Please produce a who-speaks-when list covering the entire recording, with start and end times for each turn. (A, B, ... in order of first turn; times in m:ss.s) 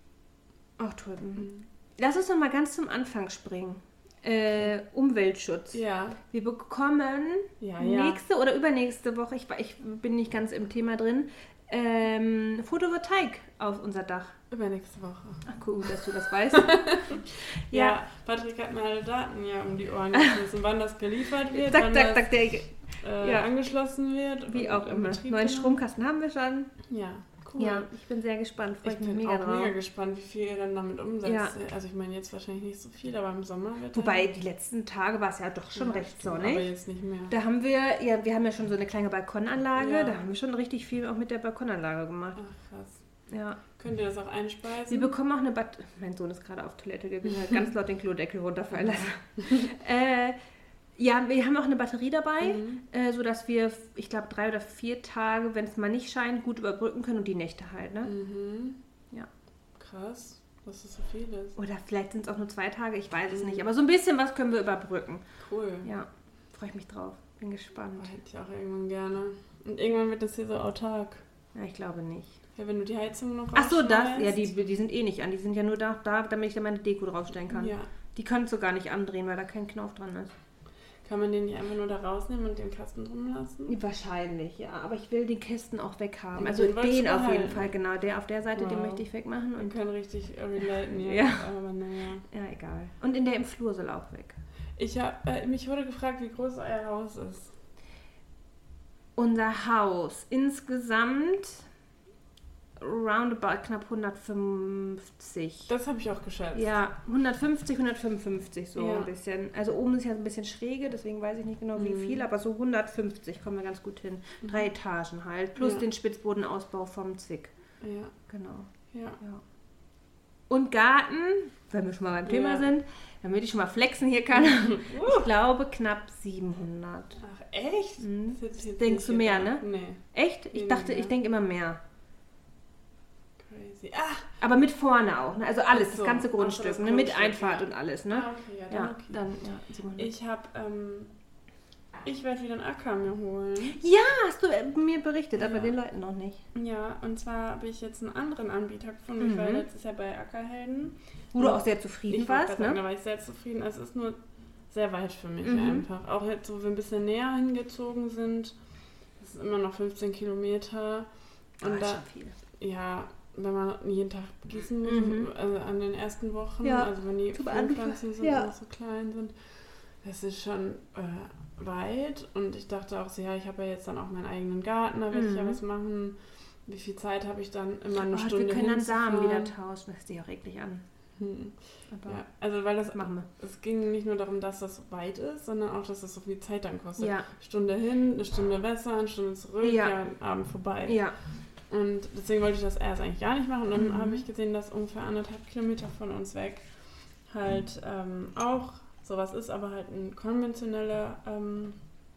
0:00.8-0:14.4 A
0:05.7-0:06.2 B
0:07.6-0:08.2 B
0:14.5-0:15.4 B
0:15.5-0:18.0 A
0:16.5-0:22.3 B
0:21.5-0:23.5 A
0:23.0-0:25.8 B
0:24.5-0:26.7 A
0:26.9-0:27.9 B
0:27.6-0:29.7 A
0:28.8-0:34.3 B
0:31.2-0:31.5 A
0:33.9-0:36.7 A
0:35.8-0:37.4 B
0:37.3-0:42.4 A
0:39.8-0:40.2 B
0:42.4-0:43.0 B
0:43.3-0:43.6 A
0:43.8-0:45.2 B
0:44.9-0:50.4 A
0:51.0-0:58.1 A
0:52.4-0:52.8 B
0:58.1-0:58.8 B
0:59.8-1:01.6 B
1:01.6-1:05.2 A
1:03.4-1:03.6 B
1:05.4-1:05.9 B
1:05.8-1:08.1 A
1:08.0-1:11.2 B
1:11.6-1:12.4 A
1:12.6-1:14.5 B
1:13.5-1:20.3 A
1:17.5-1:17.9 B
1:21.0-1:23.8 B
1:23.7-1:29.8 A
1:26.4-1:27.8 B
1:28.6-1:29.1 B
1:29.6-1:32.3 B
1:31.0-1:31.4 A
1:32.3-1:34.4 A
1:34.8-1:37.5 B
1:39.2-1:41.7 A
1:42.8-1:45.7 A
1:45.7-1:46.7 B
1:46.5-1:57.5 A
1:48.8-1:49.1 B
1:51.8-1:52.2 B
1:55.6-1:55.9 B
1:57.8-1:58.1 B
1:58.3-1:58.7 A
1:58.9-1:59.2 B
2:00.5-2:07.2 A
2:02.3-2:02.7 B
2:04.4-2:05.3 B
2:07.2-2:10.0 B
2:08.0-2:11.8 A
2:10.5-2:11.1 B
2:13.4-2:14.2 B
2:14.4-2:20.1 A
2:15.7-2:19.2 B
2:20.0-2:21.1 B
2:22.0-2:23.8 B
2:23.8-2:26.4 A
2:25.4-2:25.8 B
2:26.5-2:34.2 B
2:29.2-2:29.6 A
2:31.3-2:32.8 A
2:34.7-2:38.6 B
2:35.4-2:35.9 A
2:39.2-2:42.0 B
2:41.6-2:42.4 A
2:42.6-2:49.4 B
2:44.8-2:45.3 A
2:46.6-2:48.5 A
2:50.0-2:59.5 B
2:55.1-2:55.6 A
2:58.1-3:00.8 A
3:01.2-3:01.6 B
3:01.9-3:02.2 A
3:02.1-3:11.0 B
3:02.9-3:03.3 A
3:07.0-3:07.3 A
3:09.6-3:10.0 A
3:10.9-3:11.2 A
3:11.7-3:21.8 B
3:13.8-3:14.2 A